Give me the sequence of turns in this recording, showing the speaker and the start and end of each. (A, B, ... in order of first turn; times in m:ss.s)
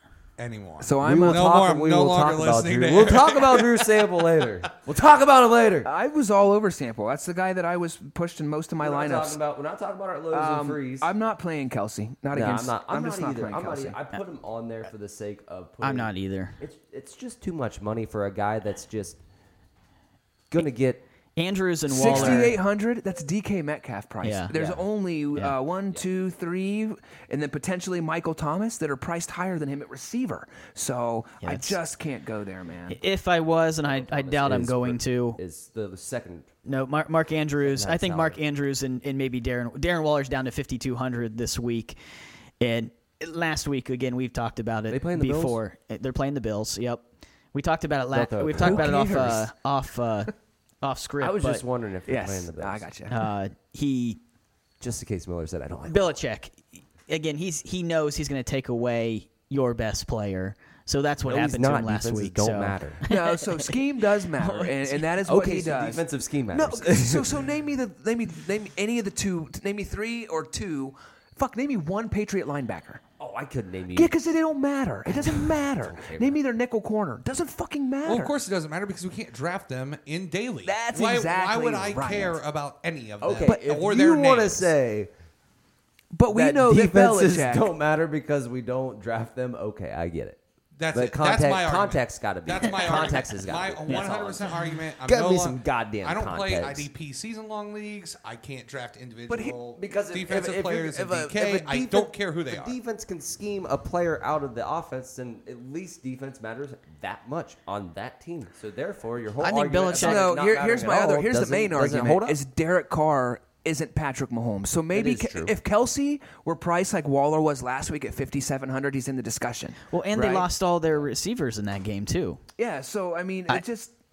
0:00.4-0:04.0 A
0:00.8-0:01.5 B
0:01.0-0:05.9 C
0:05.8-0:09.4 B
0:08.8-0:11.1 C
0:10.3-0:14.0 B
0:12.3-0:19.2 C
0:15.8-0:16.6 D
0:20.5-0:21.0 C
0:21.4-0:22.6 D
0:21.9-0:33.0 B
0:22.0-0:22.5 C
0:24.2-0:24.5 D
0:24.5-0:24.8 C
0:31.4-0:31.8 D
0:32.9-0:35.4 D
0:33.8-0:36.5 C
0:36.7-0:42.0 D
0:37.6-0:38.4 C
0:42.6-0:51.6 D
0:44.9-0:45.6 C
0:48.1-0:49.5 C
0:48.6-0:49.5 B
0:51.2-0:52.9 C
0:52.1-0:53.2 B
0:53.1-0:54.2 D
0:54.8-0:56.1 C
0:55.9-1:03.7 D
1:01.3-1:03.0 C
1:03.1-1:13.0 B
1:04.4-1:04.9 D
1:05.2-1:07.4 C
1:13.2-1:14.1 C
1:13.9-1:18.3 B
1:15.1-1:16.4 C
1:18.0-1:24.7 A
1:20.6-1:22.4 B
1:23.2-1:25.1 C
1:26.1-1:27.7 B
1:26.3-1:30.4 C
1:30.8-1:42.8 A
1:30.9-1:36.9 C
1:39.3-1:39.6 B
1:39.7-1:52.4 C
1:49.4-1:50.3 D
1:49.9-2:00.5 B
1:54.9-1:55.6 C
1:59.9-2:02.4 D
2:02.6-2:03.9 B